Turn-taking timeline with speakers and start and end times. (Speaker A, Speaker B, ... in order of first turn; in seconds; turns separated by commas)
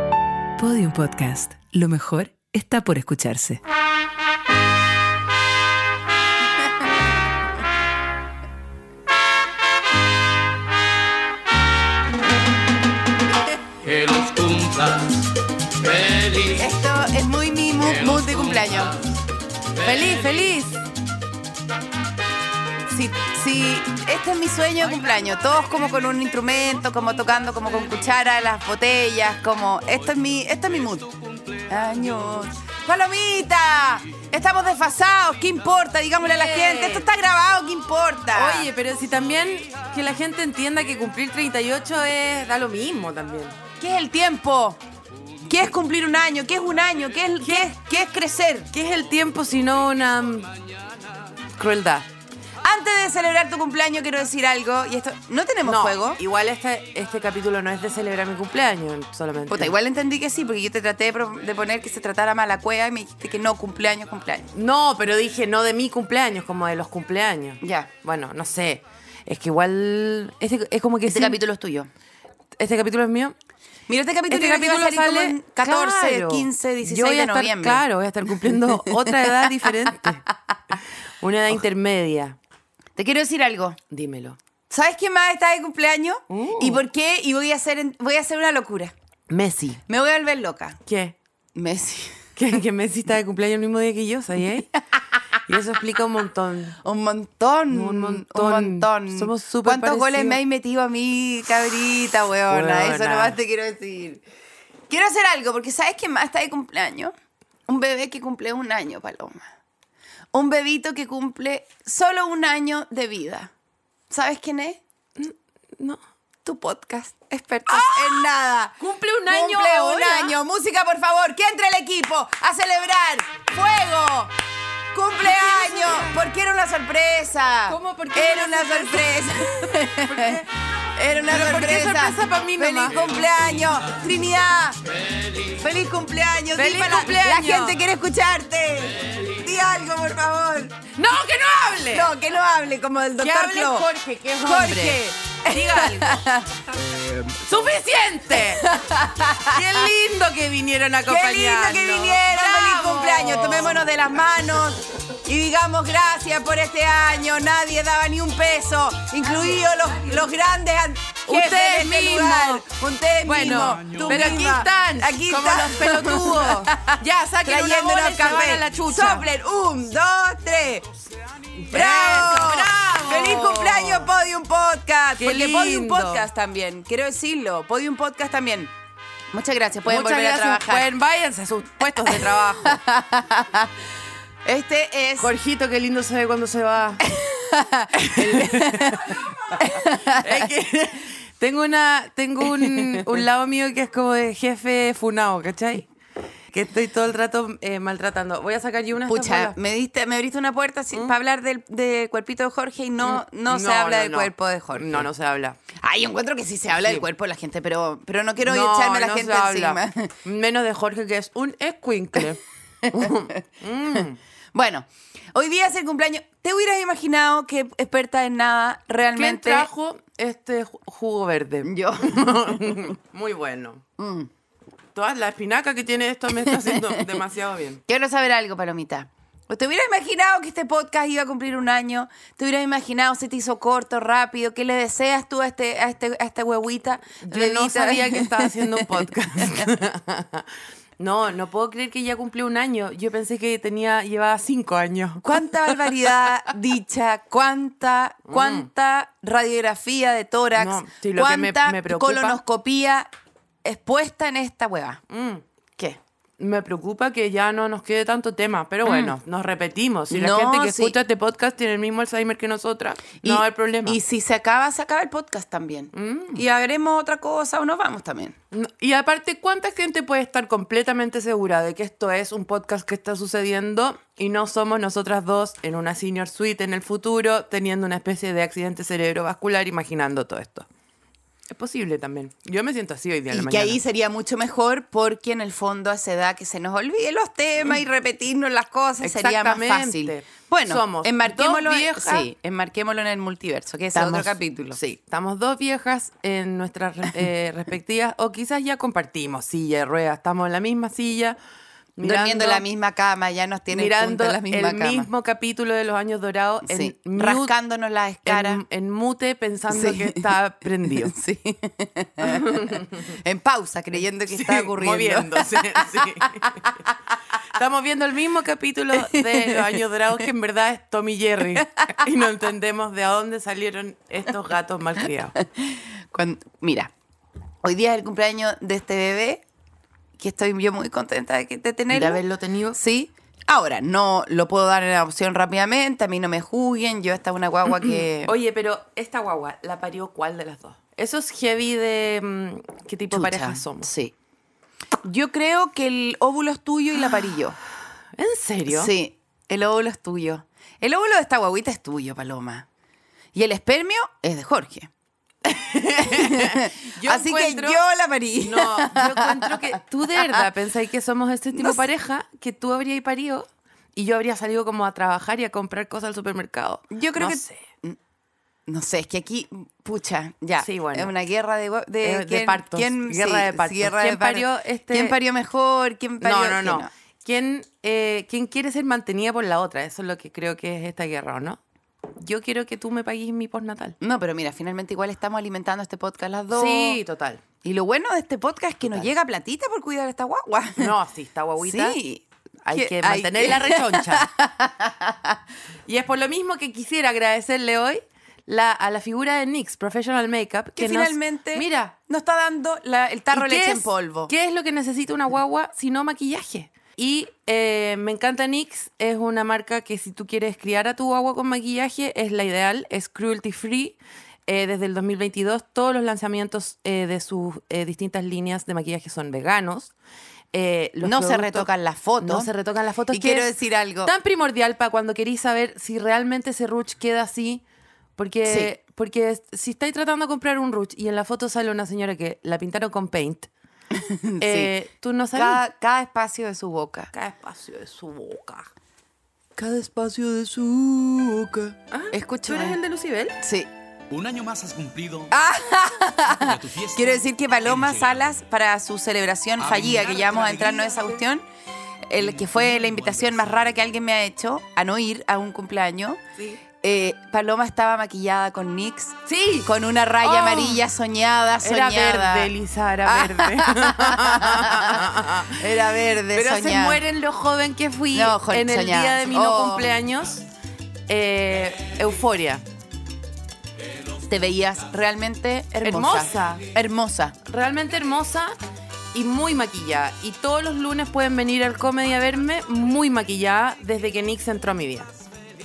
Speaker A: 0.6-3.6, Speaker B: 13.8-16.7, Speaker C: 16.6-19.0, Speaker B: 17.8-19.2, Speaker B: 19.8-20.4, Speaker D: 19.8-20.8, Speaker C: 22.9-31.1, Speaker C: 31.6-38.7, Speaker D: 36.2-37.1, Speaker D: 38.3-43.5, Speaker C: 43.8-44.8, Speaker C: 45.4-48.7, Speaker D: 47.4-47.7, Speaker D: 48.7-50.5, Speaker D: 51.5-52.1, Speaker C: 52.6-56.2, Speaker D: 55.6-59.7, Speaker C: 59.5-64.5, Speaker D: 64.5-71.4, Speaker C: 67.6-67.9, Speaker C: 71.1-71.9, Speaker D: 72.6-73.3, Speaker C: 73.9-77.8, Speaker D: 74.3-80.2, Speaker C: 78.4-80.3, Speaker D: 81.2-82.4, Speaker C: 83.0-83.8, Speaker D: 83.9-84.4, Speaker C: 84.7-88.9, Speaker D: 86.3-86.8, Speaker D: 89.3-89.8, Speaker C: 89.9-90.8, Speaker D: 90.9-91.2, Speaker C: 91.5-92.3, Speaker D: 92.4-94.7, Speaker D: 95.5-96.8, Speaker C: 96.8-104.2, Speaker D: 97.7-100.4, Speaker D: 102.5-103.4, Speaker C: 104.9-107.1, Speaker C: 107.7-109.5, Speaker C: 110.3-113.5, Speaker C: 114.1-114.8, Speaker D: 115.2-116.0, Speaker C: 116.4-124.3, Speaker D: 117.7-120.4, Speaker C: 124.9-140.8, Speaker D: 125.2-126.2, Speaker D: 127.7-130.5, Speaker D: 131.2-133.0, Speaker B: 135.1-135.4, Speaker D: 136.6-137.8, Speaker D: 140.9-142.1, Speaker C: 141.9-143.9, Speaker D: 143.2-146.2, Speaker C: 144.4-147.2, Speaker D: 147.3-148.7, Speaker C: 148.3-149.9, Speaker D: 149.5-153.9, Speaker C: 151.1-170.9, Speaker D: 161.2-162.7, Speaker D: 163.2-169.3, Speaker D: 171.6-174.1, Speaker C: 171.7-178.7, Speaker D: 175.2-176.2, Speaker C: 179.3-180.9, Speaker D: 179.8-182.8, Speaker C: 182.1-183.7, Speaker C: 184.4-185.3, Speaker D: 185.2-187.0, Speaker C: 187.0-190.4, Speaker D: 187.9-195.9, Speaker C: 192.6-193.1, Speaker D: 196.5-199.6, Speaker C: 199.1-205.1, Speaker D: 203.0-205.6, Speaker C: 205.8-210.2, Speaker D: 208.4-214.2, Speaker C: 212.8-219.7, Speaker D: 219.2-223.8, Speaker C: 221.6-222.9, Speaker C: 224.0-224.3, Speaker D: 224.9-227.8, Speaker C: 226.5-227.1, Speaker C: 227.9-239.7, Speaker D: 237.2-240.5, Speaker D: 241.0-246.0, Speaker C: 245.2-253.1, Speaker D: 248.3-248.7, Speaker D: 250.6-252.4, Speaker C: 253.6-255.0, Speaker D: 255.1-255.4, Speaker D: 256.4-264.0, Speaker C: 258.9-259.1, Speaker C: 260.1-261.0, Speaker C: 263.2-268.4, Speaker D: 265.9-266.4, Speaker D: 268.5-280.7, Speaker D: 281.5-283.8, Speaker C: 283.3-294.8, Speaker D: 289.0-292.3, Speaker D: 293.9-301.4, Speaker D: 302.0-302.6, Speaker C: 302.0-305.1, Speaker D: 303.7-307.5, Speaker C: 306.7-308.6, Speaker D: 308.2-311.1, Speaker C: 309.7-310.3, Speaker C: 310.9-316.5, Speaker D: 312.2-313.1, Speaker D: 314.3-316.8, Speaker D: 317.4-325.4, Speaker C: 318.9-319.8, Speaker C: 325.4-326.9, Speaker C: 327.6-329.4, Speaker C: 330.2-332.2, Speaker D: 331.9-332.8, Speaker C: 332.7-338.4, Speaker D: 337.8-343.9, Speaker C: 343.1-344.1, Speaker C: 345.0-347.6, Speaker D: 348.2-348.9, Speaker C: 348.7-352.7, Speaker C: 353.3-354.9, Speaker D: 355.4-357.8, Speaker C: 356.0-360.4, Speaker D: 358.4-367.6, Speaker C: 361.6-361.8, Speaker C: 366.9-368.0, Speaker C: 368.7-376.9, Speaker D: 370.6-371.1, Speaker D: 372.0-375.2, Speaker D: 376.2-381.6, Speaker D: 382.1-384.0, Speaker C: 384.0-387.0, Speaker D: 386.5-387.4, Speaker C: 387.6-390.9, Speaker D: 390.8-392.0, Speaker C: 391.6-395.4, Speaker D: 392.6-394.3, Speaker D: 395.9-401.9, Speaker C: 400.8-404.3, Speaker D: 403.3-419.9, Speaker D: 420.5-421.7, Speaker C: 421.0-422.5, Speaker D: 422.2-423.5, Speaker C: 423.1-424.1, Speaker D: 424.0-427.6, Speaker D: 428.2-433.5, Speaker C: 428.4-428.7, Speaker C: 433.9-434.7, Speaker D: 434.4-435.6, Speaker C: 435.3-437.1, Speaker D: 437.1-438.7, Speaker C: 439.6-442.8, Speaker D: 441.9-443.4, Speaker C: 443.4-443.7, Speaker B: 444.1-445.3, Speaker C: 445.3-451.4, Speaker B: 446.3-448.2, Speaker B: 449.6-450.9, Speaker C: 452.1-456.2, Speaker B: 452.2-453.4, Speaker C: 456.8-462.5, Speaker D: 459.2-460.8, Speaker D: 461.6-465.7, Speaker C: 463.0-467.0, Speaker D: 466.3-470.4, Speaker C: 468.1-469.9, Speaker D: 471.1-472.6, Speaker C: 474.2-477.4, Speaker D: 475.8-476.7, Speaker D: 477.4-478.6, Speaker D: 479.1-485.2